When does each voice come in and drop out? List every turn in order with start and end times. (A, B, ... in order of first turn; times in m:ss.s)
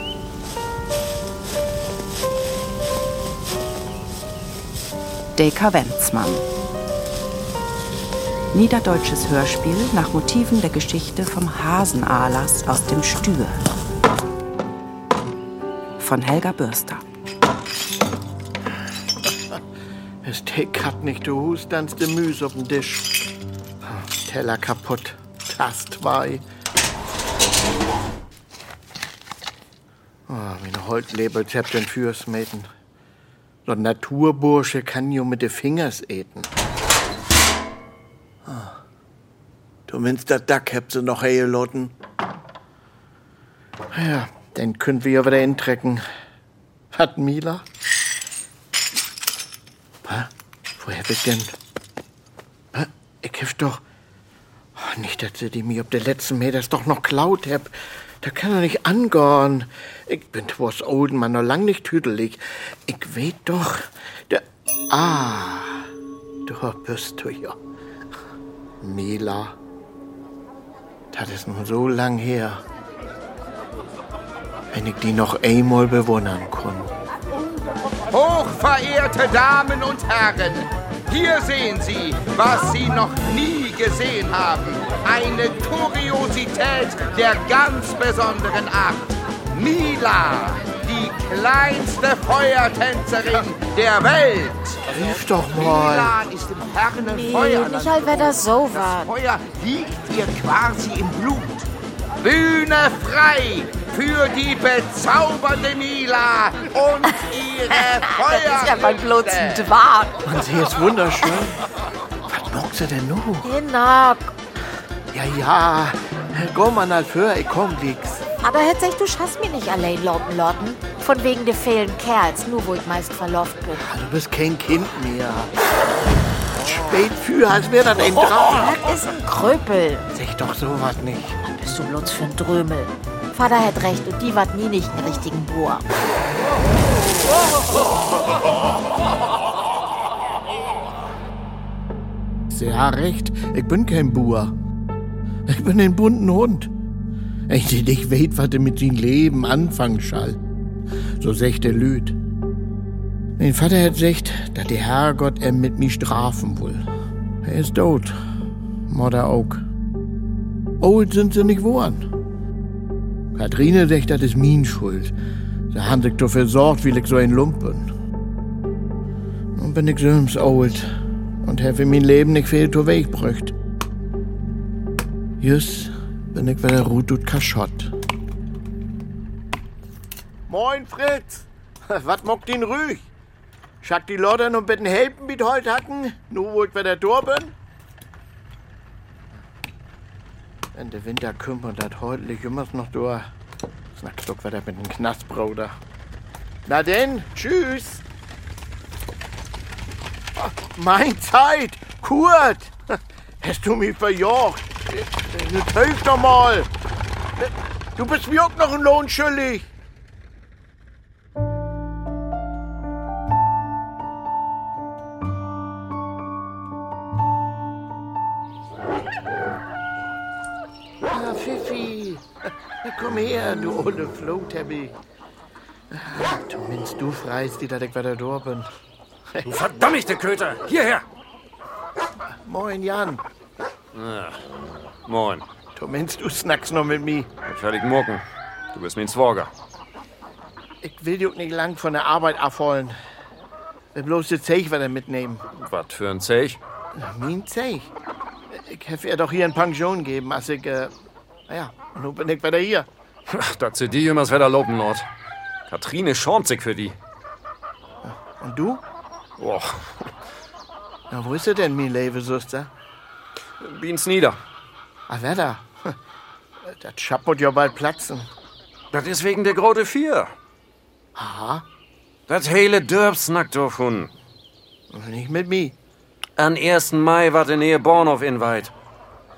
0:05.4-0:06.5 A
0:08.5-0:13.6 A
0:16.0-0:17.0 A
0:20.2-0:23.1 B
0:23.8-0:26.4 B
0:30.3-0:32.7 B
0:33.7-0:36.5 B
0:38.5-0:38.8 B
0:39.9-0:41.9 B
0:43.9-0:46.0 B
0:46.9-0:47.6 B
0:50.0-0:51.5 B
0:52.7-0:53.8 B
0:54.8-1:05.9 B
1:06.5-1:07.6 B
1:08.8-1:09.6 B
1:11.1-1:12.6 B
1:14.7-1:16.9 B
1:18.1-1:34.8 C
1:34.9-1:36.1 B
1:35.5-1:41.7 C
1:37.1-1:39.1 D
1:42.2-1:49.7 C
1:47.7-1:50.2 D
1:50.2-1:51.6 B
1:52.3-1:53.5 B
1:53.4-1:54.3 D
1:55.1-1:58.2 B
1:58.4-2:03.8 D
2:03.8-2:05.5 B
2:06.6-2:08.7 B
2:08.2-2:10.1 D
2:10.2-2:11.4 B
2:11.4-2:15.9 D
2:22.5-2:24.5 B
2:25.5-2:26.7 B
2:27.5-2:30.4 B
2:31.2-2:32.2 B
2:33.4-2:36.9 B
2:37.4-2:38.2 B
2:38.9-2:39.6 B
2:40.8-2:42.1 B
2:43.4-2:45.1 B
2:45.7-2:47.9 B
2:49.6-2:50.9 B
2:51.4-2:53.5 B
2:55.4-2:57.9 B
3:00.5-3:03.1 B
3:03.8-3:07.5 B
3:10.7-3:13.3 B
3:14.0-3:15.8 B
3:16.7-3:18.0 B
3:20.4-3:26.7 B
3:27.4-3:29.6 B
3:41.0-3:45.0 B
3:45.9-3:48.7 B
3:49.3-3:49.7 B
3:49.4-3:51.0 E
3:52.4-3:53.2 B
3:53.9-3:54.4 E
3:54.9-3:55.4 E
3:55.8-3:57.3 B
3:57.5-3:58.2 E
3:58.7-3:59.5 E
4:00.8-4:03.0 B
4:04.0-4:05.4 B
4:05.6-4:06.6 E
4:07.0-4:07.9 B
4:08.5-4:10.9 B
4:11.5-4:12.9 B
4:13.3-4:15.1 E
4:15.7-4:17.0 E
4:18.0-4:18.8 B
4:19.4-4:20.1 E
4:21.1-4:22.7 B
4:23.6-4:24.4 E
4:25.1-4:26.0 B
4:26.6-4:28.3 B
4:28.9-4:30.3 E
4:31.2-4:31.6 B
4:32.3-4:34.1 E
4:34.9-4:35.8 B
4:36.4-4:38.7 E